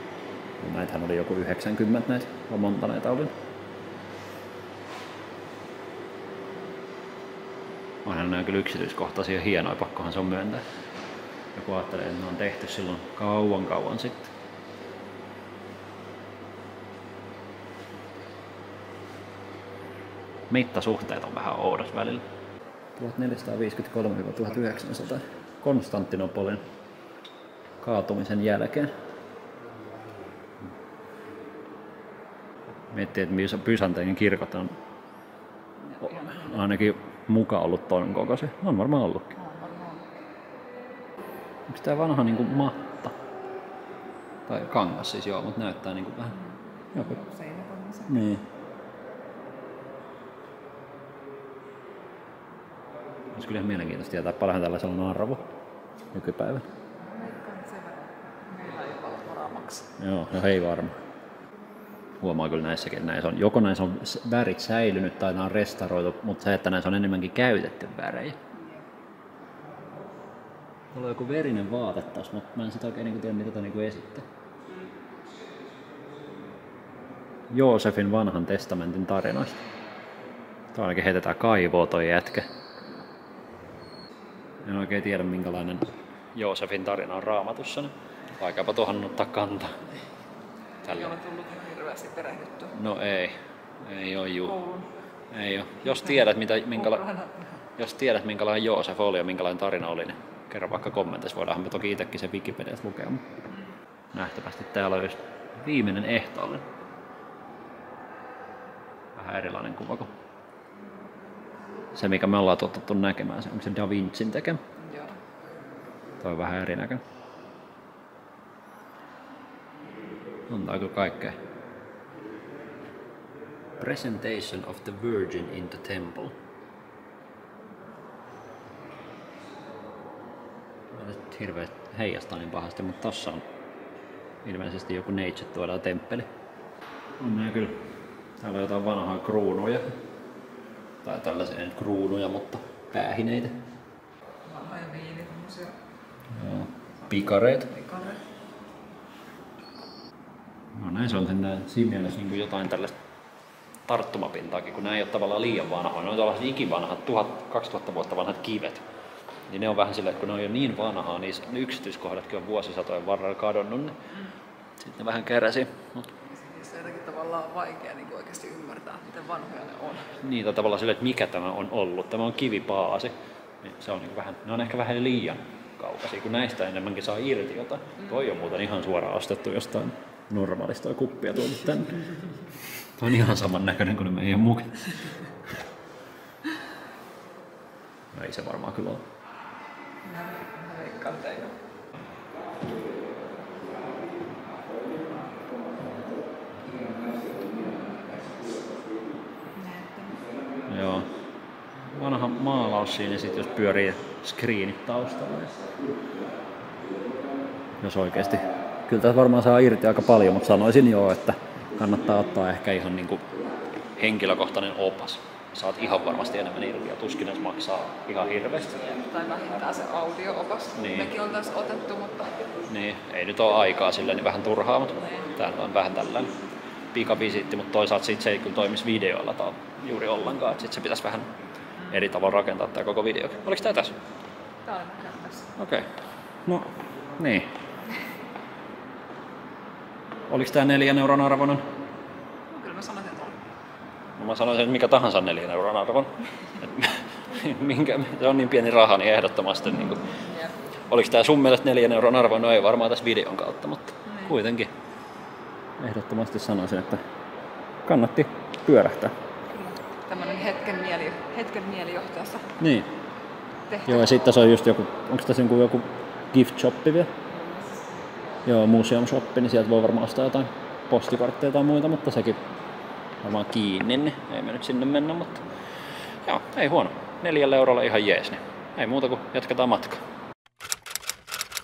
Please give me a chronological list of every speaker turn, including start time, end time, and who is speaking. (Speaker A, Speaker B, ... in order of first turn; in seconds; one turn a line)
Speaker A: 0.6-3.3
Speaker A: 8.0-10.6
Speaker A: 11.5-14.3
Speaker A: 20.5-22.2
Speaker A: 23.0-26.6
Speaker A: 27.8-28.9
Speaker A: 32.9-34.8
Speaker B: 35.8-36.7
Speaker A: 36.0-39.4
Speaker B: 39.4-40.2
Speaker A: 41.7-43.1
Speaker A: 44.5-46.4
Speaker B: 46.9-48.3
Speaker A: 46.9-47.2
Speaker A: 48.1-48.4
Speaker A: 53.3-55.5
Speaker A: 56.1-56.6
Speaker B: 57.0-59.9
Speaker A: 60.0-61.0
Speaker A: 62.2-68.4
Speaker B: 68.5-68.9
Speaker A: 70.9-74.3
Speaker A: 77.5-79.6
Speaker A: 80.7-82.5
Speaker A: 84.6-89.8
Speaker B: 90.8-92.8
Speaker A: 90.8-91.2
Speaker A: 92.7-94.6
Speaker B: 94.4-94.9
Speaker A: 95.3-97.0
Speaker B: 96.0-97.6
Speaker A: 97.8-103.2
Speaker A: 104.1-106.7
Speaker A: 109.2-110.1
Speaker A: 111.9-114.6
Speaker B: 114.8-115.2
Speaker A: 116.2-117.0
Speaker A: 120.5-121.4
Speaker A: 123.8-126.4
Speaker A: 130.9-133.4
Speaker A: 134.4-136.3
Speaker A: 137.2-137.8
Speaker A: 138.4-140.0
Speaker A: 141.0-143.6
Speaker B: 144.4-145.8
Speaker A: 146.3-147.7
Speaker B: 147.6-148.2
Speaker A: 150.8-152.9
Speaker A: 153.9-158.8
Speaker A: 159.5-164.0
Speaker A: 164.8-166.1
Speaker B: 166.3-170.2
Speaker A: 170.2-182.1
Speaker A: 183.0-185.2
Speaker A: 188.1-189.1
Speaker B: 190.0-191.6
Speaker A: 195.8-196.1
Speaker B: 199.5-200.3
Speaker A: 200.7-201.1
Speaker A: 201.9-205.6
Speaker A: 207.8-213.3
Speaker A: 214.0-218.8
Speaker B: 218.9-222.5
Speaker A: 220.8-221.1
Speaker A: 222.7-226.3
Speaker A: 226.9-231.3
Speaker A: 231.9-233.9
Speaker B: 234.6-235.6
Speaker A: 235.6-235.9
Speaker A: 236.4-237.5
Speaker A: 240.3-241.7
Speaker B: 242.5-243.4
Speaker A: 244.2-250.1
Speaker B: 250.3-250.6
Speaker A: 250.9-254.7
Speaker B: 254.1-254.4
Speaker A: 255.8-257.0
Speaker A: 257.9-259.1
Speaker B: 259.5-262.5
Speaker A: 262.6-262.9
Speaker B: 263.7-264.2
Speaker A: 263.9-267.1
Speaker B: 267.2-268.4
Speaker A: 268.4-272.4
Speaker A: 273.2-275.4
Speaker A: 276.2-280.0